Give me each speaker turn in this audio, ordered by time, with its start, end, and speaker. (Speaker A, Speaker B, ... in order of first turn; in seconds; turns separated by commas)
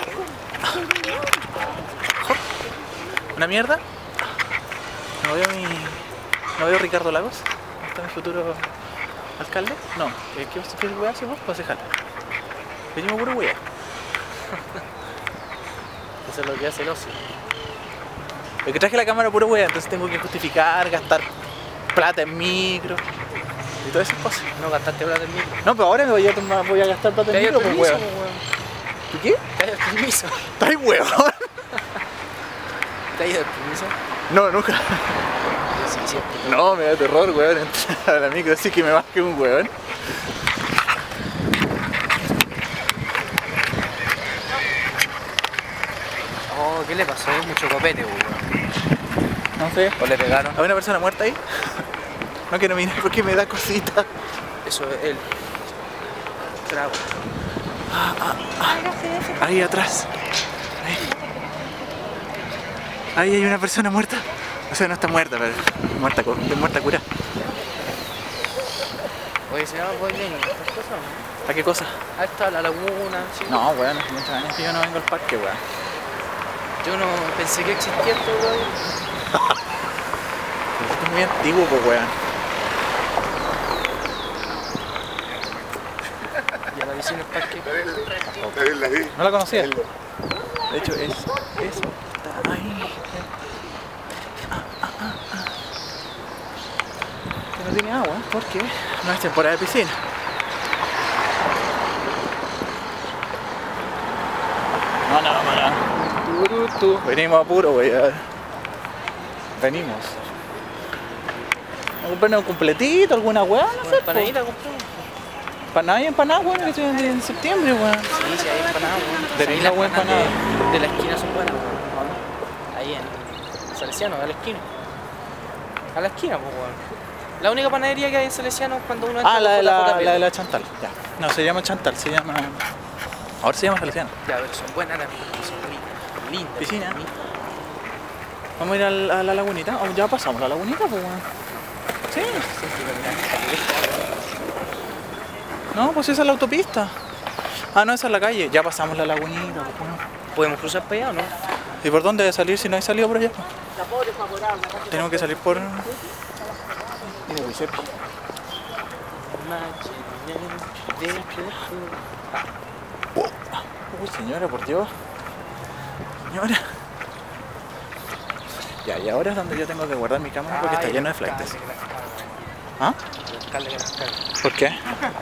Speaker A: 0.7-0.9, Speaker A: 2.2-2.4, Speaker A: 3.4-4.3, Speaker A: 5.2-8.7, Speaker A: 9.4-12.0, Speaker A: 12.9-13.6, Speaker B: 16.2-17.2, Speaker A: 18.6-21.3, Speaker A: 21.9-23.0, Speaker A: 23.8-24.5, Speaker B: 24.6-25.6, Speaker A: 25.6-28.1, Speaker B: 27.3-28.4, Speaker A: 29.1-29.4, Speaker B: 29.6-30.6, Speaker A: 30.6-31.5, Speaker B: 31.7-32.0, Speaker B: 33.1-34.0, Speaker A: 34.3-35.2, Speaker B: 35.7-36.8, Speaker A: 36.4-39.9, Speaker B: 46.5-48.5, Speaker A: 49.6-50.0, Speaker B: 50.0-50.6, Speaker A: 50.5-51.9, Speaker A: 52.5-54.1, Speaker B: 54.6-55.5, Speaker B: 56.7-57.1, Speaker A: 57.9-60.1, Speaker A: 60.8-61.2, Speaker A: 63.1-67.0, Speaker B: 69.5-71.3, Speaker A: 71.5-72.0, Speaker B: 72.2-73.7, Speaker A: 73.5-75.6, Speaker B: 76.8-78.8, Speaker A: 79.3-79.6, Speaker A: 80.8-82.2, Speaker B: 86.7-87.7, Speaker A: 89.0-89.8, Speaker A: 90.7-93.3, Speaker A: 94.5-95.5, Speaker A: 97.5-100.0, Speaker A: 105.0-105.8, Speaker B: 106.2-107.0, Speaker A: 106.9-108.3, Speaker A: 109.6-110.2, Speaker A: 112.0-114.3, Speaker B: 113.8-115.1, Speaker A: 115.7-118.2, Speaker B: 118.1-122.2, Speaker A: 119.3-120.4, Speaker B: 122.7-124.7, Speaker B: 125.9-130.3, Speaker A: 129.2-132.7, Speaker A: 133.4-134.1, Speaker B: 134.2-137.2, Speaker A: 136.6-137.0, Speaker A: 138.6-141.2, Speaker A: 142.1-142.5, Speaker B: 142.2-144.2, Speaker A: 145.7-146.9, Speaker A: 147.5-150.0, Speaker B: 150.3-151.4, Speaker A: 151.8-153.4, Speaker A: 154.8-156.0, Speaker A: 157.0-157.9, Speaker B: 159.1-162.4, Speaker A: 163.2-164.9, Speaker A: 166.3-166.7, Speaker A: 168.8-171.6, Speaker B: 170.5-172.4, Speaker B: 173.2-174.2, Speaker A: 174.4-174.8